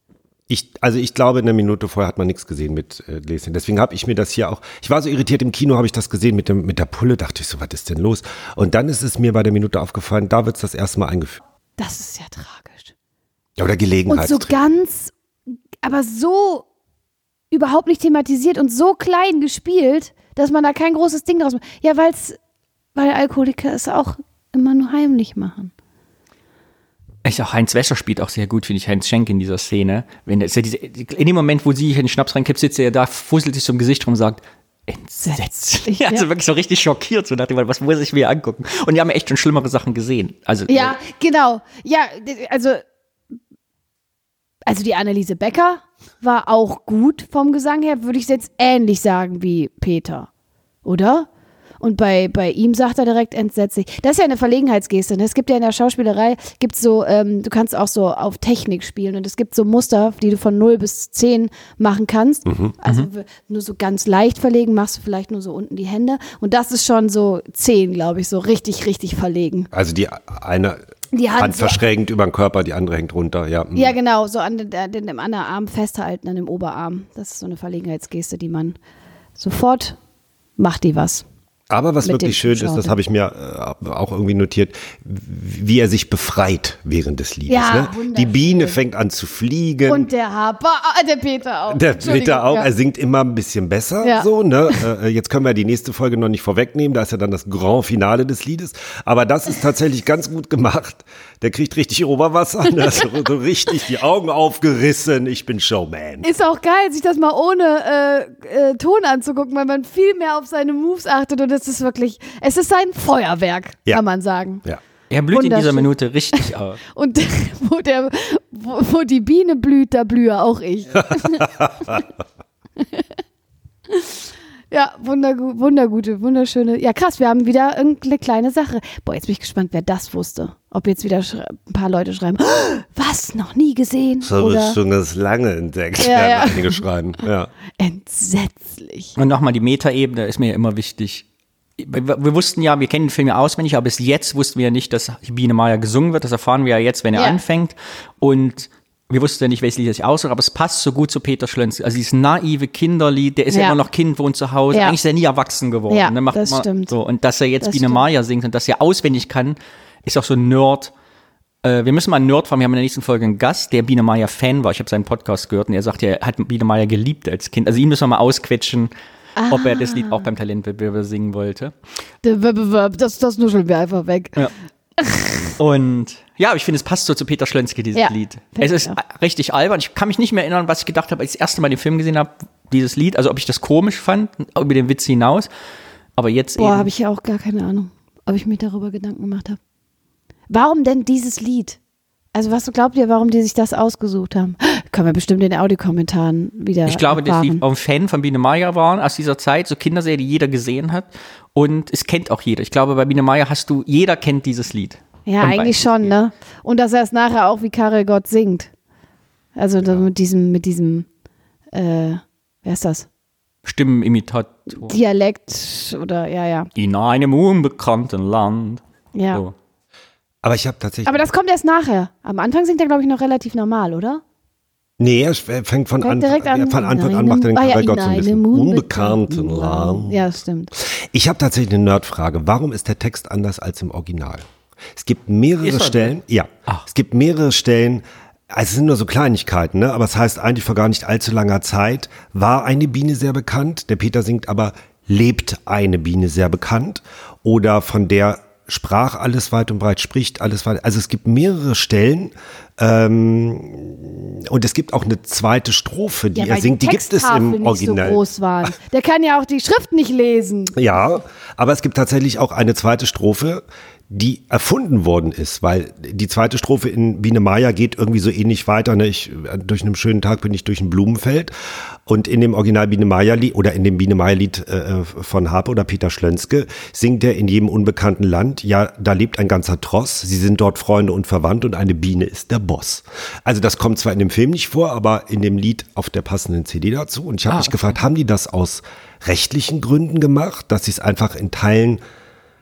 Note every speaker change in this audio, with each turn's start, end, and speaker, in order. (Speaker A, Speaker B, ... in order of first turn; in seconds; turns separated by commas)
Speaker A: 0.5-11.4, Speaker B: 11.8-12.9, Speaker A: 13.6-14.6, Speaker B: 14.1-15.1, Speaker B: 15.8-16.7, Speaker B: 17.5-22.4, Speaker B: 23.0-25.7, Speaker C: 27.2-41.0, Speaker B: 35.9-36.2, Speaker B: 40.7-42.8, Speaker B: 44.7-50.3, Speaker B: 50.9-51.3, Speaker B: 51.8-69.7, Speaker A: 62.5-62.8, Speaker A: 69.7-70.8, Speaker B: 71.1-71.8, Speaker A: 71.4-74.0, Speaker B: 73.7-78.8, Speaker B: 79.4-80.0, Speaker B: 80.6-81.2, Speaker A: 81.7-90.1, Speaker B: 82.0-83.0, Speaker B: 87.5-88.8, Speaker B: 89.9-92.7, Speaker A: 91.7-106.3, Speaker B: 94.0-94.8, Speaker B: 106.2-114.6, Speaker C: 115.1-116.8, Speaker B: 115.3-122.0, Speaker A: 121.2-121.9, Speaker B: 122.8-123.1, Speaker B: 123.9-124.2, Speaker B: 124.7-134.8, Speaker A: 134.2-137.5, Speaker B: 136.0-137.2, Speaker B: 137.8-139.2, Speaker C: 139.2-141.2, Speaker C: 141.8-160.9, Speaker B: 147.1-147.4, Speaker B: 153.5-153.8, Speaker B: 154.7-155.0, Speaker B: 155.9-157.0, Speaker B: 157.6-158.0, Speaker C: 161.6-168.9, Speaker B: 169.4-170.3, Speaker C: 169.5-171.7, Speaker B: 172.2-174.5, Speaker B: 175.0-175.6, Speaker C: 175.6-185.5, Speaker B: 177.9-179.0, Speaker C: 186.2-186.9, Speaker B: 186.6-189.6, Speaker B: 190.5-191.8, Speaker B: 192.3-197.6, Speaker C: 196.9-206.1, Speaker B: 205.3-208.7, Speaker B: 209.6-211.1, Speaker B: 211.7-213.1, Speaker C: 213.7-214.9, Speaker B: 214.7-216.7, Speaker C: 216.8-219.5, Speaker B: 219.2-219.4, Speaker A: 220.4-221.3, Speaker B: 221.1-224.2, Speaker A: 225.0-230.3, Speaker B: 226.0-230.7, Speaker A: 230.8-234.4, Speaker A: 235.0-258.7, Speaker C: 235.6-236.2, Speaker B: 256.3-260.8, Speaker A: 260.7-271.5, Speaker A: 272.1-292.0, Speaker C: 287.5-287.9